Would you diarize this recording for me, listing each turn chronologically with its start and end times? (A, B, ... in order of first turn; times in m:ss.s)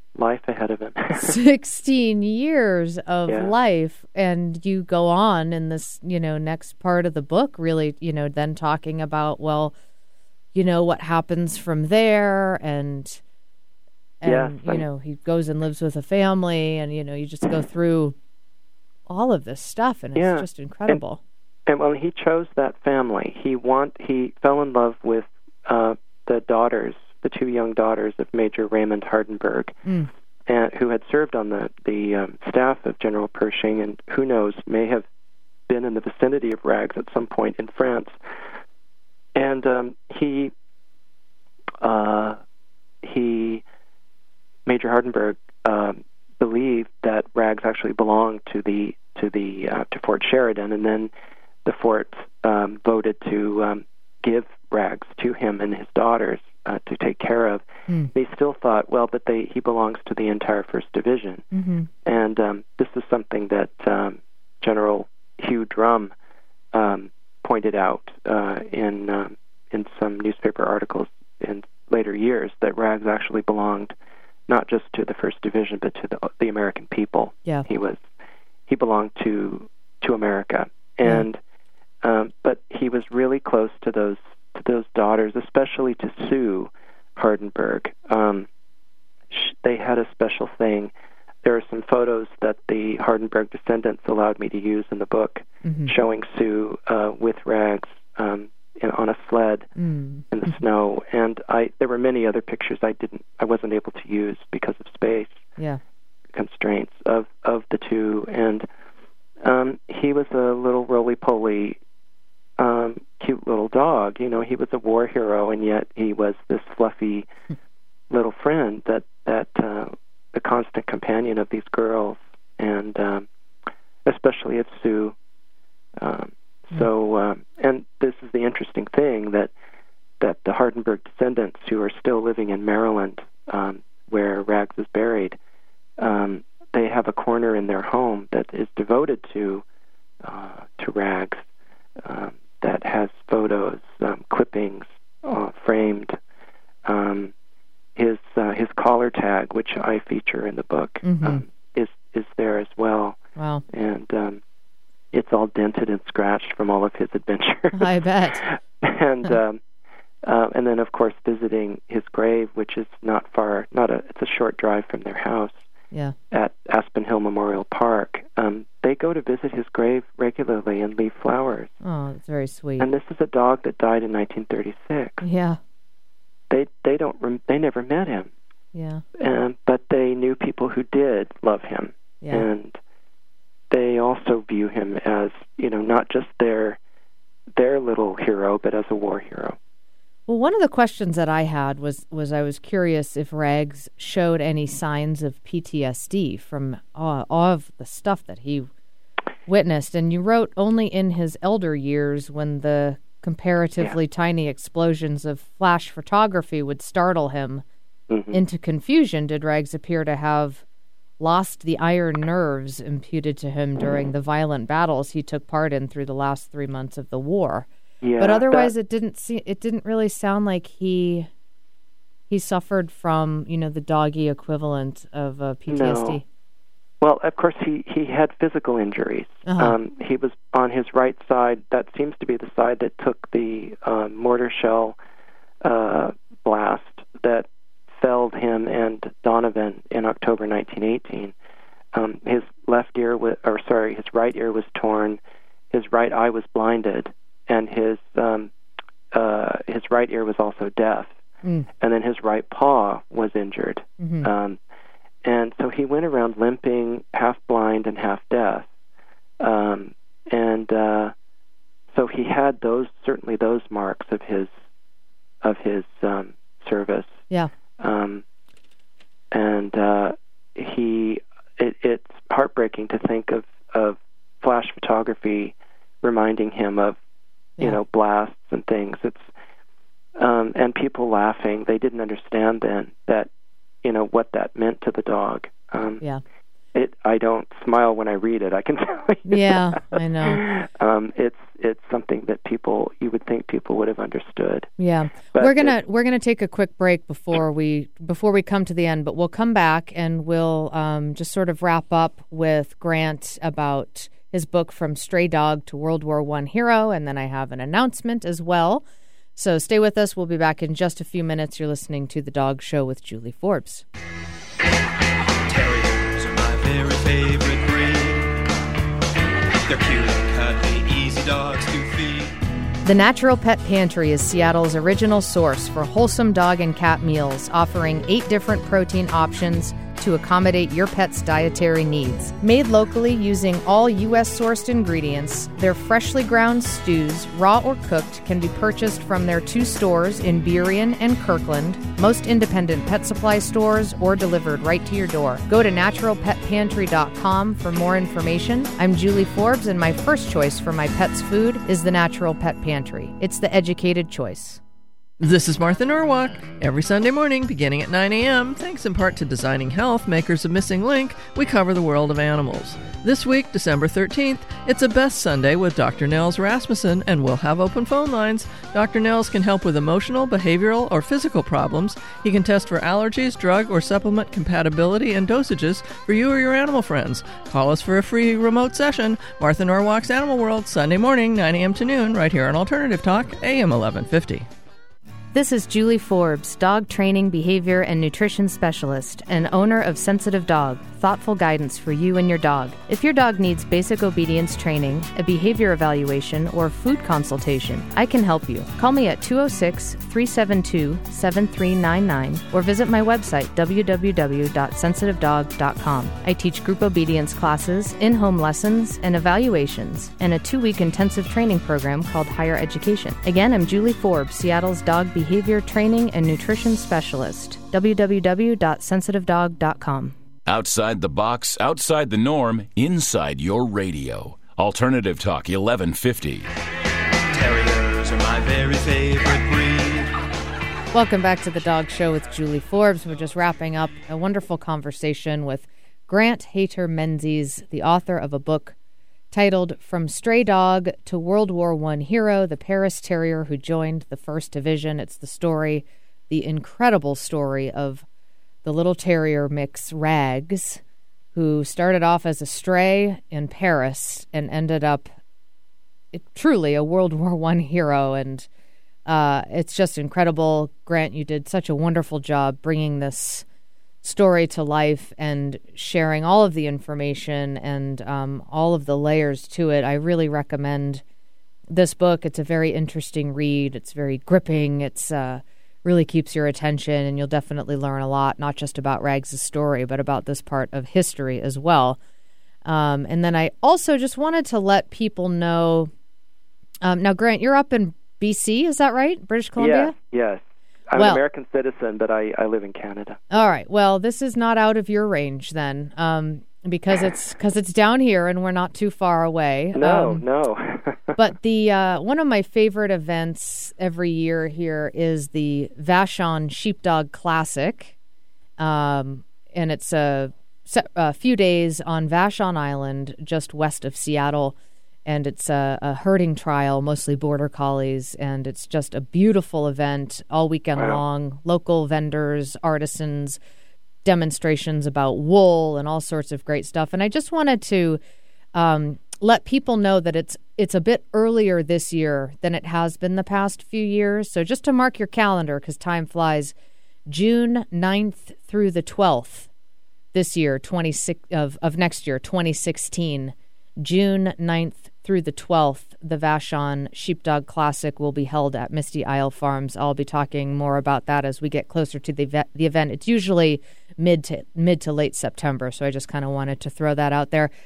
0:00.2-0:01.4 A
0:01.1-0:09.7 B
0:10.5-0:13.2 B
0:14.2-0:18.1 B
0:14.2-0:14.8 A
0:19.1-0:21.2 B
0:20.2-0:21.0 A
0:21.7-0:29.8 A
0:29.8-0:30.1 B
0:30.5-0:35.0 A
0:35.7-0:38.2 A
0:39.4-0:40.5 A
0:41.8-0:42.4 A
0:43.0-0:43.6 A
0:44.6-0:51.1 A
0:51.6-1:01.5 A
1:01.5-1:01.9 B
1:02.0-1:06.1 A
1:06.7-1:13.9 A
1:14.5-1:18.0 A
1:18.7-1:21.4 A
1:22.0-1:28.5 A
1:29.3-1:30.9 A
1:31.4-1:39.7 A
1:35.6-1:35.9 B
1:39.8-1:40.6 B
1:40.3-1:45.4 A
1:46.3-1:48.6 A
1:49.4-1:51.8 A
1:52.6-1:57.3 A
1:58.1-2:03.2 A
2:04.0-2:05.1 A
2:06.0-2:09.5 A
2:10.2-2:15.4 A
2:16.0-2:19.6 A
2:20.2-2:21.4 A
2:22.0-2:26.2 A
2:26.8-2:27.3 A
2:28.0-2:33.2 A
2:31.0-2:31.4 B
2:33.4-2:33.6 B
2:33.7-2:34.4 A
2:35.1-2:37.9 A
2:37.7-2:38.5 B
2:38.4-2:39.6 A
2:40.2-2:45.6 A
2:46.3-2:51.7 A
2:51.8-2:52.9 B
2:52.8-2:55.2 A
2:55.2-2:55.6 B
2:56.5-2:58.3 A
2:58.7-2:59.0 B
2:59.2-3:02.8 A
3:03.7-3:06.8 A
3:07.6-3:09.6 A
3:10.3-3:18.7 B
3:19.5-3:27.6 B
3:28.1-3:28.4 A
3:28.3-3:30.6 B
3:31.2-3:37.7 B
3:38.0-3:38.7 A
3:38.2-3:41.3 B
3:42.3-3:46.2 B
3:45.7-3:46.2 A
3:47.0-3:55.0 A
3:49.4-3:49.8 B
3:55.6-3:57.5 A
3:58.0-4:01.3 A
4:01.9-4:05.2 A
4:05.7-4:08.5 A
4:09.1-4:11.1 A
4:11.4-4:11.7 B
4:11.8-4:14.6 A
4:14.0-4:14.3 B
4:15.2-4:18.6 A
4:19.4-4:21.1 A
4:21.9-4:24.5 A
4:25.4-4:27.2 A
4:27.8-4:28.2 A
4:29.3-4:37.0 A
4:37.6-4:39.3 A
4:40.2-4:43.3 A
4:43.8-4:46.0 A
4:46.7-4:54.7 A
4:49.3-4:50.4 B
4:54.8-5:08.8 B
4:55.3-4:55.7 A
5:09.4-5:13.8 B
5:15.5-5:18.4 C
5:19.7-5:22.3 C
5:22.8-5:54.6 B
5:55.2-6:24.5 D
6:25.3-7:00.1 B
7:00.5-7:06.5 E
7:07.3-7:10.1 C
7:10.9-7:18.7 B
7:19.3-7:28.0 B
7:28.6-7:30.8 B
7:31.3-7:35.1 B
7:36.1-7:38.5 B
7:39.0-7:43.4 B
7:44.0-7:51.0 B
7:51.7-8:02.0 B
8:02.6-8:05.9 B
8:06.8-8:09.9 B
8:09.6-8:13.2 A
8:11.0-8:11.2 B
8:13.3-8:20.2 B
8:19.7-8:21.2 A
8:21.2-8:27.9 B
8:28.6-8:34.5 B
8:35.0-8:43.4 B
8:40.8-8:41.0 A
8:44.0-8:48.0 B
8:48.5-8:56.5 B
8:57.1-8:59.5 B
9:00.1-9:17.5 B